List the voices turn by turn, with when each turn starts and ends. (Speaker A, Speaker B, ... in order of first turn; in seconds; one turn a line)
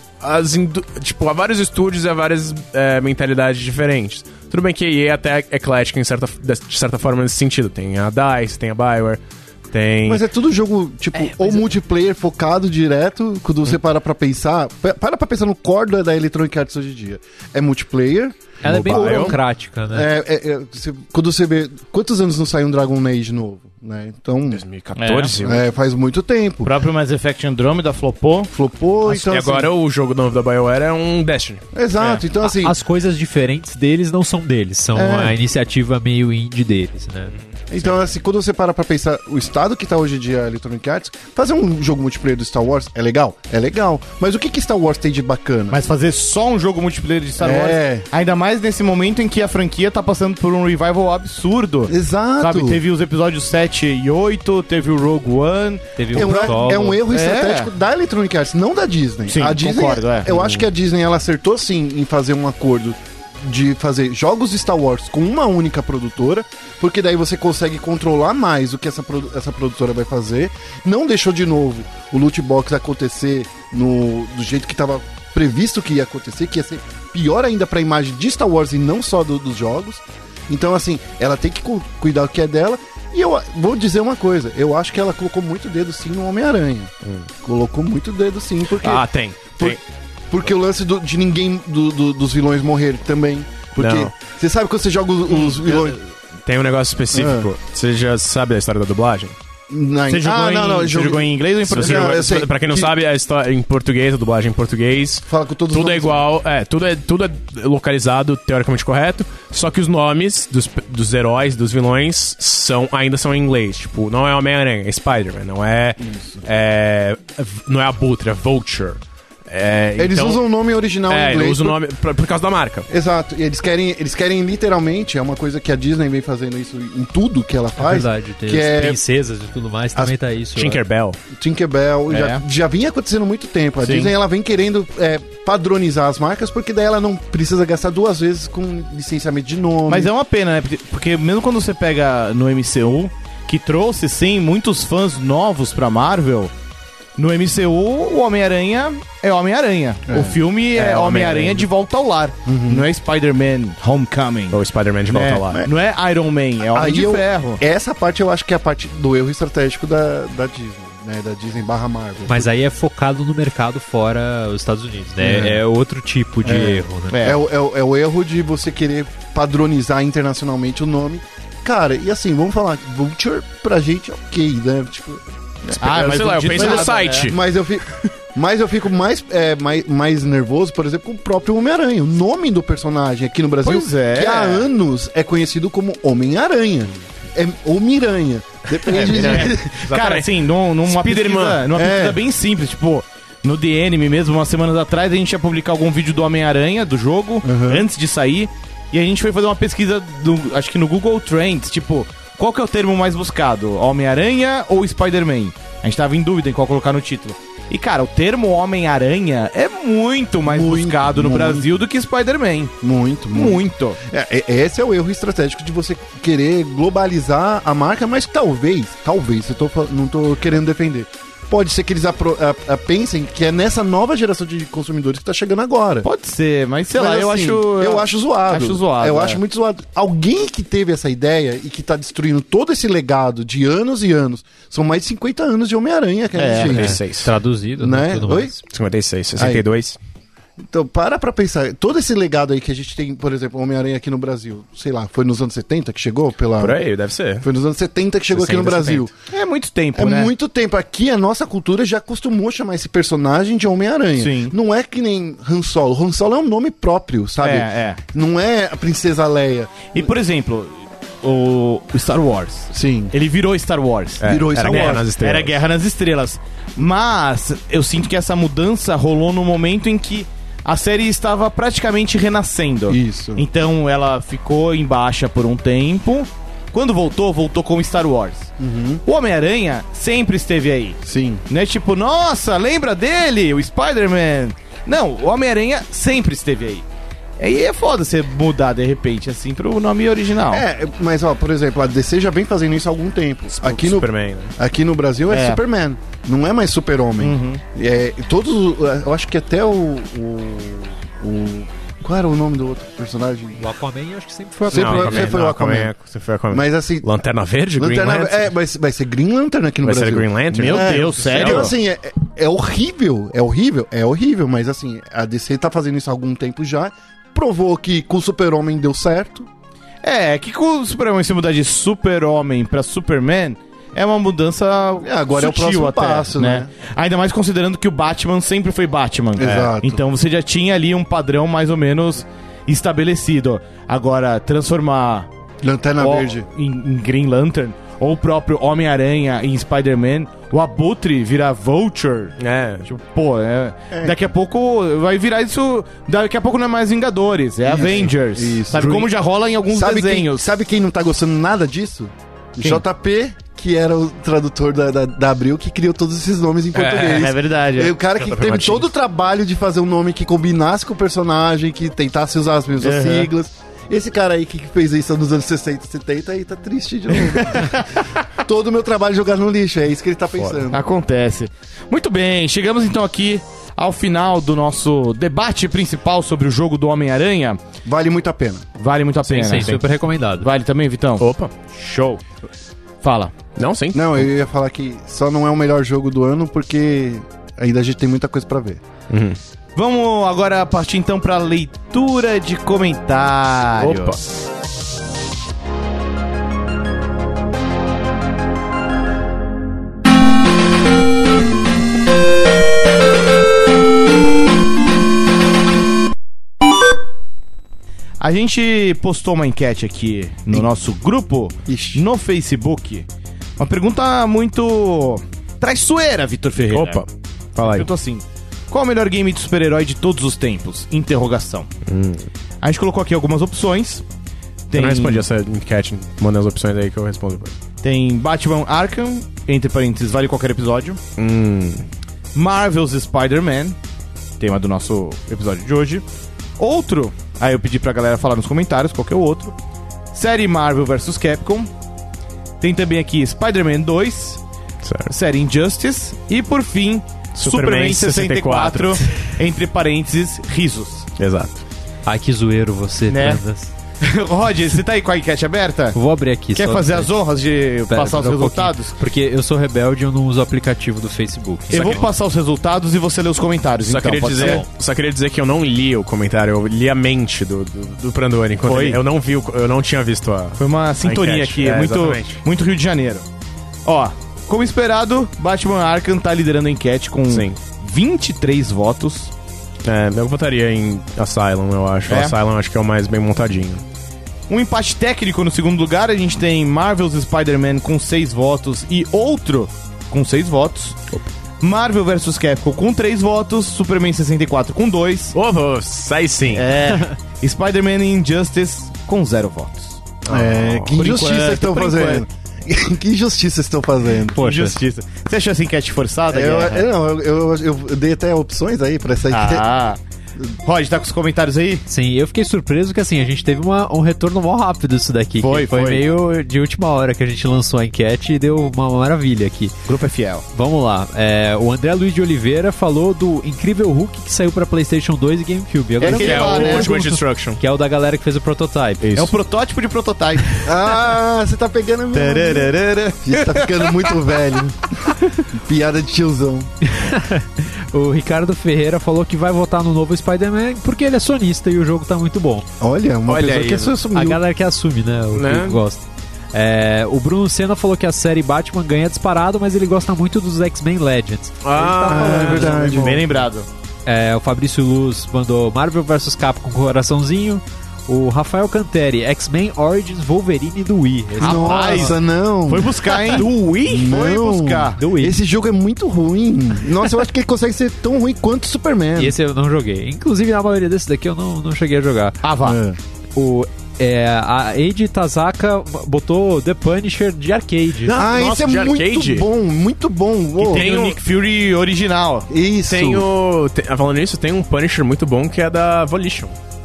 Speaker A: 0.2-10.2
Speaker B: 10.1-24.6
Speaker C: 18.6-20.1
Speaker A: 18.6-19.4
Speaker A: 24.5-25.6
Speaker D: 24.9-25.4
Speaker B: 25.4-26.7
Speaker D: 26.6-28.5
Speaker B: 28.5-29.7
Speaker A: 29.1-31.6
Speaker B: 31.7-32.8
Speaker C: 32.4-37.3
Speaker D: 35.0-35.4
Speaker A: 37.3-38.0
Speaker B: 37.7-45.8
Speaker D: 45.7-57.7
Speaker B: 47.4-48.0
Speaker B: 51.9-52.8
Speaker C: 56.0-57.0
Speaker B: 56.1-96.0
Speaker D: 59.3-60.6
Speaker A: 88.8-89.8
Speaker A: 93.8-94.1
Speaker A: 96.5-99.3
Speaker B: 97.1-97.5
Speaker B: 99.7-103.0
Speaker D: 100.1-102.4
Speaker A: 101.7-120.4
Speaker B: 105.3-106.2
Speaker B: 120.0-121.8
Speaker A: 121.1-122.9
Speaker B: 122.9-129.0
Speaker C: 127.8-130.8
Speaker A: 130.6-131.2
Speaker B: 131.3-140.1
Speaker D: 132.1-132.4
Speaker D: 133.8-134.1
Speaker D: 139.9-146.5
Speaker D: 147.2-157.6
Speaker B: 150.1-150.4
Speaker A: 150.8-151.7
Speaker B: 152.4-152.9
Speaker A: 154.5-155.6
Speaker B: 156.7-162.5
Speaker C: 162.3-167.2
Speaker B: 165.2-165.6
Speaker B: 166.4-175.2
Speaker D: 167.1-167.4
Speaker D: 175.7-177.3
Speaker A: 175.8-177.4
Speaker B: 175.8-189.7
Speaker D: 183.6-184.7
Speaker D: 188.9-212.8
Speaker A: 188.9-190.3
Speaker A: 190.8-191.7
Speaker B: 191.7-192.2
Speaker B: 197.4-197.9
Speaker B: 210.5-211.8
Speaker B: 212.8-226.1
Speaker D: 213.3-214.0
Speaker D: 226.0-229.4
Speaker B: 226.9-237.0
Speaker D: 236.4-236.9
Speaker A: 236.6-237.3
Speaker C: 236.8-238.6
Speaker B: 237.8-238.6
Speaker A: 238.7-240.0
Speaker B: 239.4-239.6
Speaker B: 240.6-246.8
Speaker A: 246.6-247.4
Speaker B: 247.4-249.1
Speaker A: 248.3-249.1
Speaker D: 249.3-250.3
Speaker B: 249.9-260.1
Speaker D: 254.2-254.5
Speaker D: 257.4-258.0
Speaker D: 259.9-278.5
Speaker B: 262.7-263.1
Speaker A: 264.2-265.6
Speaker B: 264.2-265.1
Speaker B: 272.9-273.4
Speaker B: 278.6-279.0
Speaker D: 279.1-286.8
Speaker B: 281.1-281.4
Speaker D: 287.4-290.6
Speaker B: 290.5-303.6
Speaker A: 293.6-294.5
Speaker D: 295.3-295.6
Speaker D: 297.2-297.6
Speaker C: 303.6-305.4
Speaker B: 304.7-305.9
Speaker A: 304.7-308.5
Speaker B: 306.5-307.2
Speaker B: 307.8-319.5
Speaker A: 309.8-311.7
Speaker D: 310.5-311.7
Speaker D: 320.0-335.3
Speaker B: 325.0-326.7
Speaker B: 329.4-330.0
Speaker B: 335.6-336.5
Speaker D: 336.0-350.4
Speaker A: 342.4-342.9
Speaker B: 343.9-344.2
Speaker B: 347.7-349.1
Speaker C: 348.7-349.1
Speaker B: 349.7-370.8
Speaker D: 356.7-357.9
Speaker A: 356.9-357.2
Speaker A: 358.2-358.9
Speaker D: 362.8-363.3
Speaker D: 367.2-368.1
Speaker D: 370.7-377.6
Speaker B: 377.8-378.6
Speaker D: 378.8-382.2
Speaker C: 379.2-380.5
Speaker A: 381.2-381.5
Speaker D: 383.0-383.3
Speaker A: 383.6-384.3
Speaker B: 383.9-388.8
Speaker A: 389.1-389.4
Speaker D: 389.8-394.3
Speaker A: 393.8-394.2
Speaker D: 408.2-413.1
Speaker B: 411.6-412.0
Speaker D: 413.6-417.1
Speaker A: 416.7-417.9
Speaker D: 417.6-421.7
Speaker A: 421.9-422.3
Speaker D: 422.6-424.0
Speaker D: 424.7-425.3
Speaker A: 424.7-427.5
Speaker D: 427.8-431.0
Speaker A: 431.2-431.8
Speaker D: 432.3-433.8
Speaker D: 434.4-436.0
Speaker D: 436.6-439.6
Speaker D: 440.1-441.7
Speaker D: 442.6-444.4
Speaker A: 444.8-445.1
Speaker D: 445.1-451.1
Speaker A: 447.3-449.1
Speaker A: 451.1-451.6
Speaker C: 452.1-453.7
Speaker D: 453.1-453.4
Speaker D: 454.0-456.0
Speaker C: 455.9-457.1
Speaker D: 456.6-458.9
Speaker C: 457.9-462.1
Speaker D: 461.7-464.6
Speaker A: 461.7-462.1
Speaker A: 463.8-472.4
Speaker C: 464.3-464.6
Speaker D: 468.6-469.0
Speaker D: 470.6-473.2
Speaker D: 473.9-479.3
Speaker A: 477.3-477.6
Speaker A: 479.8-483.8
Speaker D: 482.1-482.4
Speaker D: 484.5-491.1
Speaker D: 491.6-495.4
Speaker A: 495.3-496.8
Speaker D: 496.5-500.0
Speaker A: 500.3-500.9
Speaker B: 500.3-504.4
Speaker D: 500.9-502.2
Speaker D: 504.3-506.9
Speaker C: 504.3-504.8
Speaker B: 506.3-509.6
Speaker D: 509.3-510.0
Speaker D: 510.6-511.8
Speaker C: 511.9-519.8
Speaker D: 515.4-516.0
Speaker D: 519.9-520.5
Speaker C: 520.5-529.1
Speaker B: 526.0-527.0
Speaker D: 526.0-527.0
Speaker A: 526.0-527.6
Speaker A: 529.0-529.3
Speaker D: 529.1-530.8
Speaker B: 530.6-536.7
Speaker D: 532.1-534.4
Speaker C: 536.8-542.7
Speaker B: 542.8-544.4
Speaker A: 543.3-544.0
Speaker C: 544.1-553.1
Speaker A: 545.3-545.8
Speaker A: 551.6-553.2
Speaker B: 552.0-553.2
Speaker D: 552.1-553.7
Speaker C: 554.0-562.1
Speaker D: 561.4-565.0
Speaker B: 561.4-569.4
Speaker A: 563.1-564.1
Speaker C: 563.5-563.7
Speaker C: 565.0-565.4
Speaker C: 569.1-572.4
Speaker D: 572.4-572.8
Speaker B: 572.6-573.0
Speaker C: 573.3-578.2
Speaker B: 578.1-580.9
Speaker A: 578.1-579.5
Speaker A: 580.6-581.2
Speaker D: 580.6-582.5
Speaker B: 582.5-583.3
Speaker A: 582.9-586.5